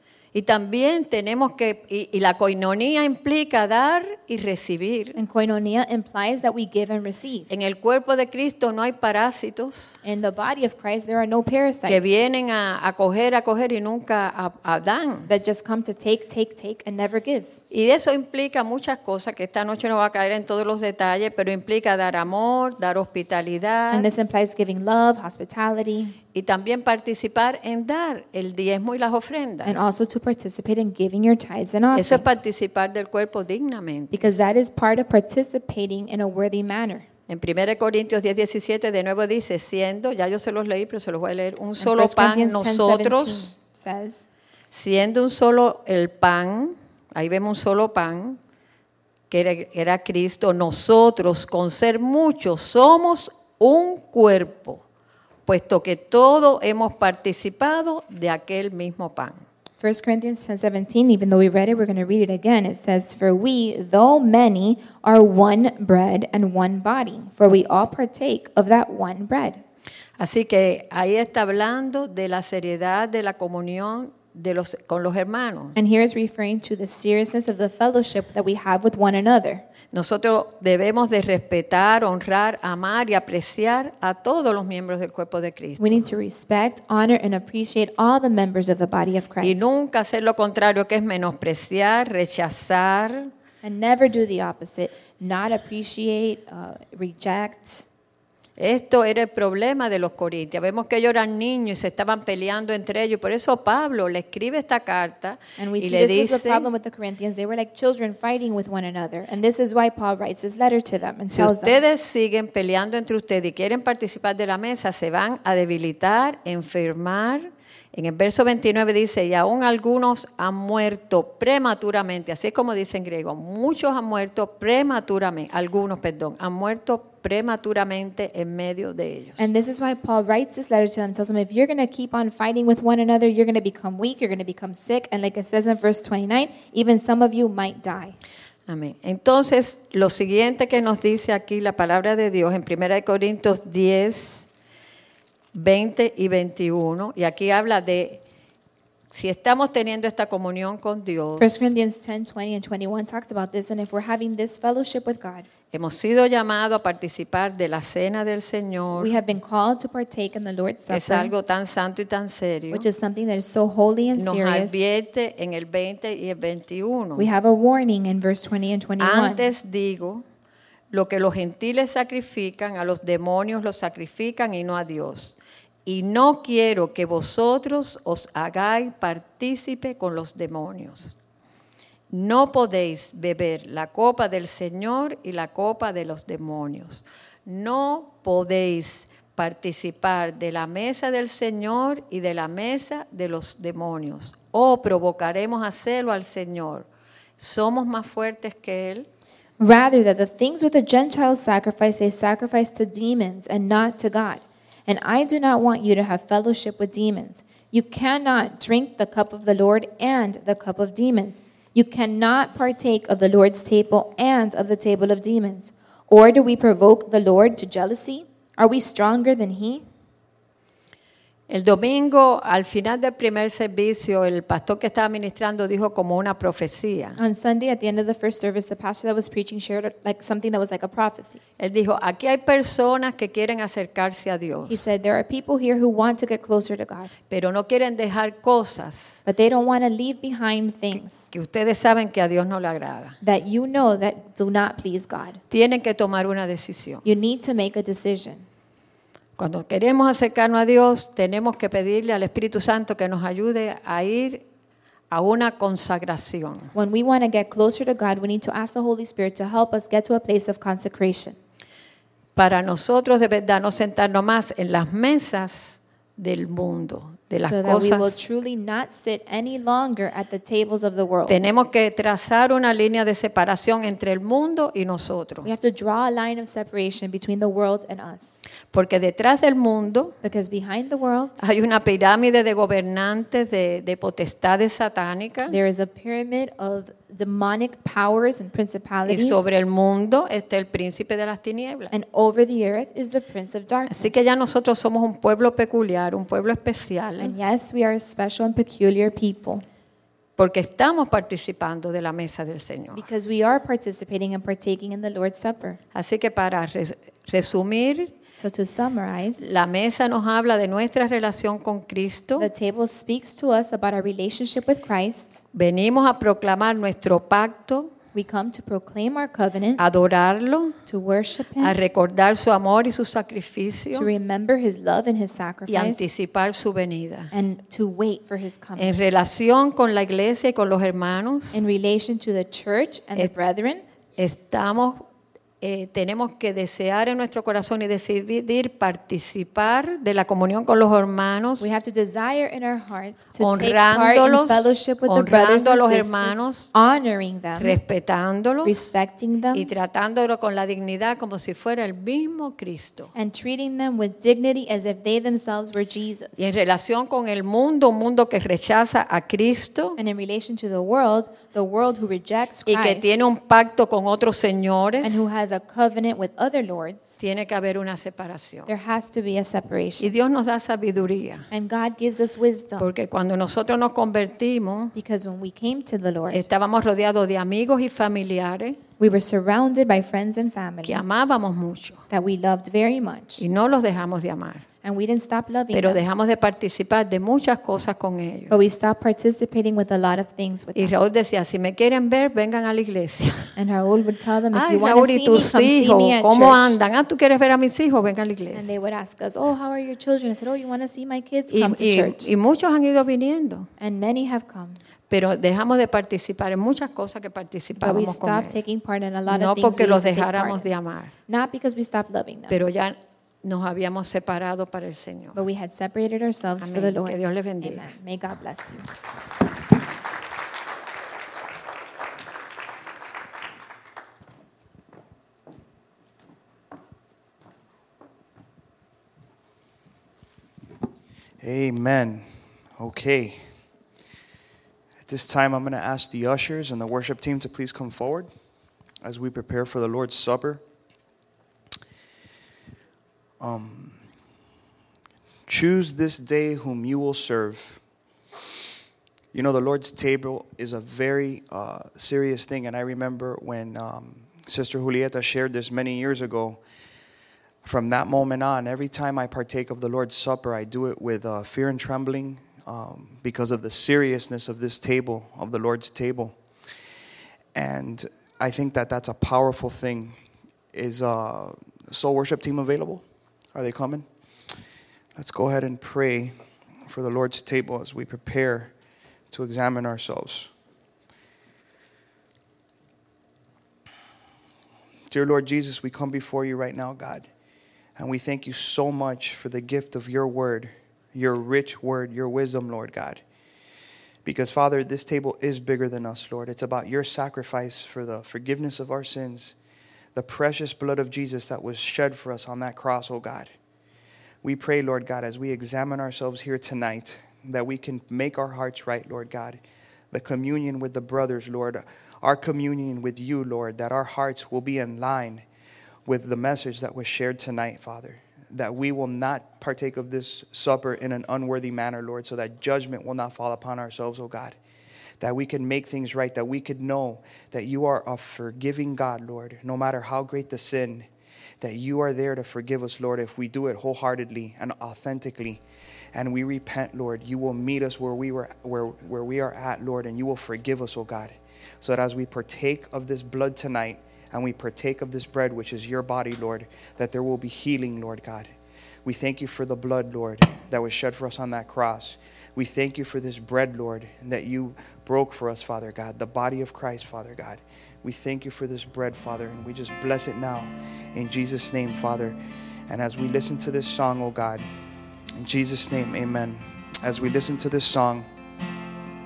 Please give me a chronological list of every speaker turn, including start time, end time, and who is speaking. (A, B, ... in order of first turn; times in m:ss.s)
0:00.3-0:05.2 A
0:05.2-0:07.5 B
0:07.5-0:10.0 A
0:10.0-0:12.1 B
0:11.8-0:15.3 A
0:15.3-0:17.6 B
0:17.7-0:24.1 A
0:23.9-0:26.2 B
0:26.3-0:29.8 A
0:29.6-0:32.3 B
0:31.9-0:34.3 A
0:34.1-0:37.1 B
0:37.3-0:43.5 A
0:41.8-0:44.2 B
0:44.7-0:48.4 A
0:49.3-0:54.8 A
0:55.4-0:59.4 A
0:59.8-1:09.6 B
1:10.2-1:15.8 A
1:15.8-1:19.6 B
1:19.9-1:26.0 A
1:25.8-1:29.7 B
1:29.4-1:33.3 A
1:33.6-1:37.8 B
1:38.6-1:46.7 A
1:45.6-1:51.8 B
1:51.3-2:09.5 A
2:09.4-2:18.2 B
2:18.7-2:24.5 A
2:25.5-2:28.2 A
2:29.1-2:31.7 A
2:31.4-2:35.5 B
2:35.7-2:39.2 A
2:39.0-2:41.3 B
2:40.9-2:42.9 A
2:42.7-2:44.8 B
2:44.2-2:47.3 A
2:47.2-2:49.5 B
2:49.0-2:50.2 A
2:50.9-3:01.1 A
3:02.1-3:16.9 A
3:17.4-3:19.1 A
3:19.6-3:39.8 B
3:41.5-3:47.2 A
3:47.2-3:51.4 B
3:51.6-3:54.8 A
3:54.7-3:57.1 B
3:57.3-3:59.2 A
3:59.2-4:01.3 B
4:01.3-4:03.2 A
4:03.2-4:05.4 B
4:05.5-4:07.0 A
4:07.0-4:08.4 B
4:09.4-4:14.4 A
4:15.1-4:16.7 A
4:16.7-4:21.4 B
4:22.4-4:28.2 A
4:27.4-4:31.5 B
4:31.3-4:35.5 A
4:35.4-4:38.4 B
4:38.7-4:40.2 A
4:40.2-4:41.4 B
4:41.4-4:45.5 A
4:45.5-4:49.4 B
4:49.0-4:51.9 A
4:51.9-4:54.3 B
4:53.9-4:57.4 A
4:57.2-4:59.6 B
5:00.4-5:03.1 A
5:02.9-5:05.8 B
5:05.9-5:08.1 A
5:08.4-5:09.4 B
5:09.4-5:12.5 A
5:12.4-5:15.4 B
5:15.5-5:17.9 A
5:18.1-5:19.8 B
5:19.8-5:20.8 A
5:20.9-5:21.7 B
5:21.6-5:24.1 A
5:23.9-5:26.0 B
5:25.7-5:27.3 A
5:27.3-5:28.9 B
5:28.8-5:31.6 A
5:31.5-5:33.8 B
5:34.2-5:35.0 A
5:35.6-5:41.7 A
5:41.6-5:47.8 B
5:43.4-5:46.7 A
5:47.6-5:48.9 A
5:48.6-5:49.7 B
5:49.5-5:53.1 A
5:53.1-5:56.4 B
5:56.4-6:00.0 A
6:00.0-6:03.3 B
6:02.7-6:05.3 A
6:05.0-6:07.2 B
6:07.2-6:08.7 A
6:08.7-6:10.1 B
6:10.0-6:11.5 A
6:11.5-6:12.9 B
6:12.8-6:14.9 A
6:14.9-6:16.4 B
6:16.3-6:18.8 A
6:19.0-6:21.0 B
6:20.8-6:22.0 A
6:22.1-6:23.4 B
6:23.4-6:24.6 A
6:24.8-6:26.0 B
6:25.7-6:28.6 A
6:28.5-6:30.9 B
6:30.7-6:33.5 A
6:33.6-6:36.8 B
6:34.5-6:38.7 A
6:38.5-6:42.3 B
6:41.5-6:43.7 A
6:43.8-6:44.8 B
6:45.1-6:48.6 A
6:47.8-6:50.7 B
6:49.3-6:51.1 A
6:51.3-6:52.6 B
6:52.5-6:55.4 A
6:55.3-6:58.9 B
6:56.6-6:57.9 A
7:11.4-7:12.2 C
7:12.8-7:13.4 C
7:15.0-7:18.3 C
7:19.0-7:20.6 C
7:23.4-7:24.0 C
7:25.5-7:27.8 C
7:29.3-7:36.6 C
7:37.6-7:46.4 C
7:47.5-7:50.2 C
7:50.7-7:53.0 C
7:53.5-7:54.0 C
7:55.2-7:56.3 C
7:56.8-7:58.7 C
7:59.3-8:00.5 C
8:05.1-8:07.3 C
8:08.0-8:13.2 C
8:14.2-8:19.5 C
8:20.1-8:23.5 C
8:24.4-8:29.6 C
8:30.1-8:35.4 C
8:36.0-8:44.6 C
8:45.2-8:51.1 C
8:51.6-8:55.6 C
8:56.1-9:08.5 C
9:09.0-9:22.4 C
9:22.9-9:24.6 C
9:25.4-9:28.2 C